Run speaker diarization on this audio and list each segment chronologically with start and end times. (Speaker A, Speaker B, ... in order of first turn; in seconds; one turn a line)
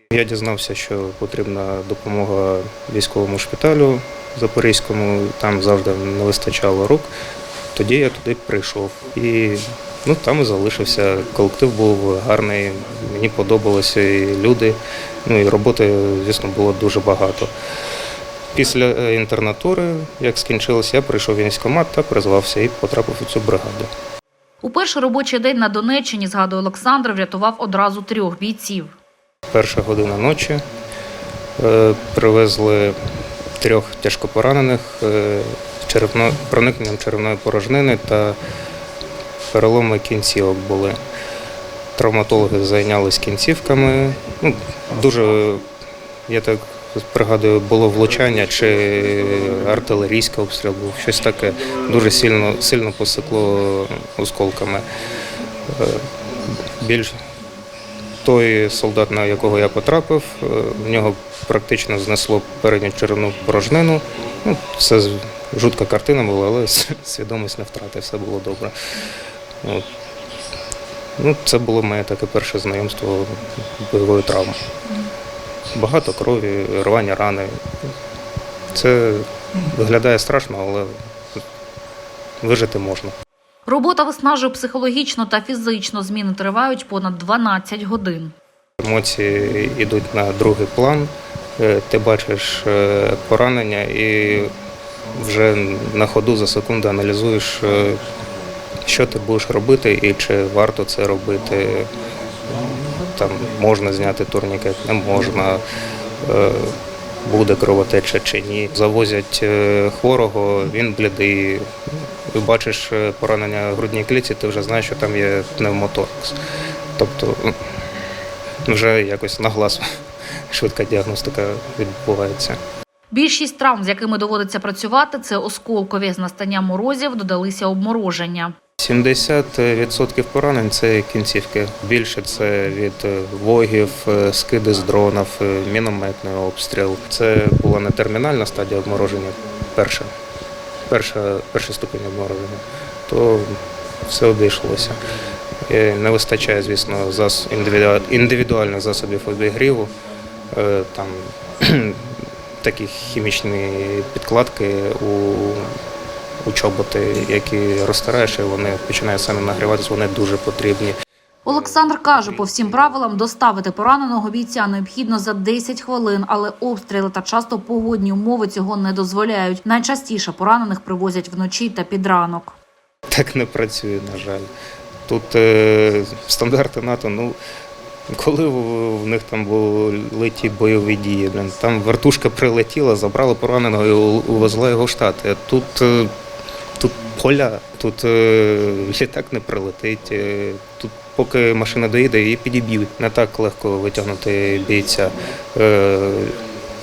Speaker A: 0.1-7.1
Speaker A: 7.7-17.5
Speaker A: 18.5-23.9
Speaker B: 24.6-29.0
Speaker A: 29.5-30.6
Speaker A: 31.6-33.0
Speaker A: 33.6-38.4
Speaker A: 39.5-41.0
Speaker A: 42.0-45.6
Speaker A: 46.3-54.8
Speaker A: 55.7-56.0
Speaker A: 56.7-57.1
Speaker A: 58.2-68.7
Speaker A: 71.2-74.6
Speaker A: 75.7-77.5
Speaker A: 78.7-80.9
Speaker A: 82.4-83.1
Speaker B: 83.7-88.3
Speaker A: 88.8-94.5
Speaker A: 95.1-98.0
Speaker A: 98.8-101.9
Speaker A: 103.0-105.6
Speaker A: 106.2-116.4
Speaker A: 117.0-117.5
Speaker A: 118.6-119.9
Speaker A: 120.5-122.6
Speaker B: 123.1-128.5
Speaker A: 128.8-140.1
Speaker A: 140.9-143.6
Speaker A: 144.1-145.0
Speaker A: 145.7-149.9
Speaker A: 150.5-155.7
Speaker A: 156.4-160.9
Speaker B: 161.4-172.6
Speaker A: 161.5-162.9
Speaker A: 173.1-174.5
Speaker A: 175.1-177.3
Speaker A: 178.1-186.1
Speaker A: 186.8-196.4